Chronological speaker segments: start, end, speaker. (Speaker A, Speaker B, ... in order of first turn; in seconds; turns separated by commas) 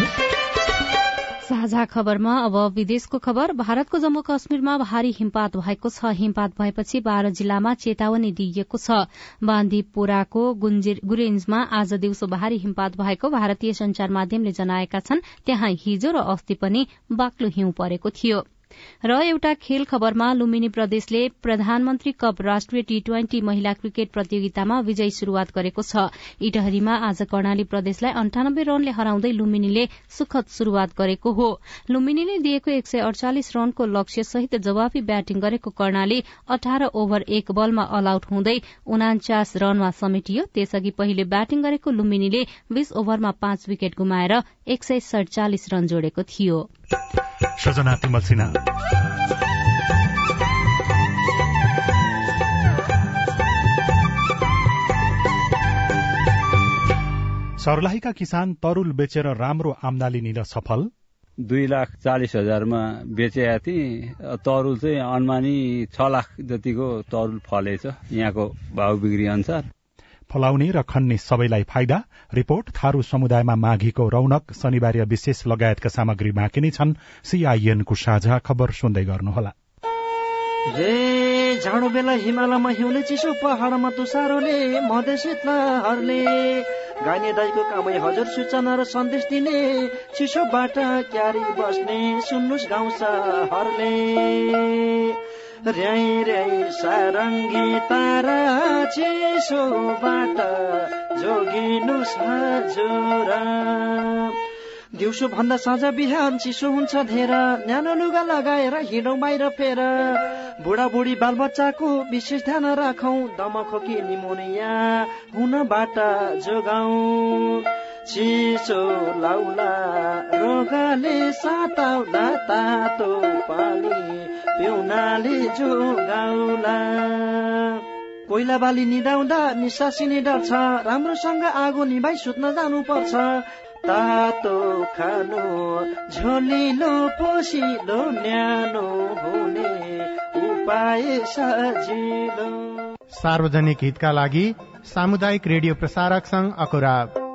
Speaker A: 1.5-18.4, Speaker A: 19.1-46.7, Speaker B: 47.6-48.6, Speaker B: 57.6-60.9, Speaker C: 61.4-69.7, Speaker B: 70.3-79.5, Speaker D: 80.7-95.1, Speaker D: 95.7-104.3, Speaker D: 104.9-142.8, Speaker E: 143.2-147.0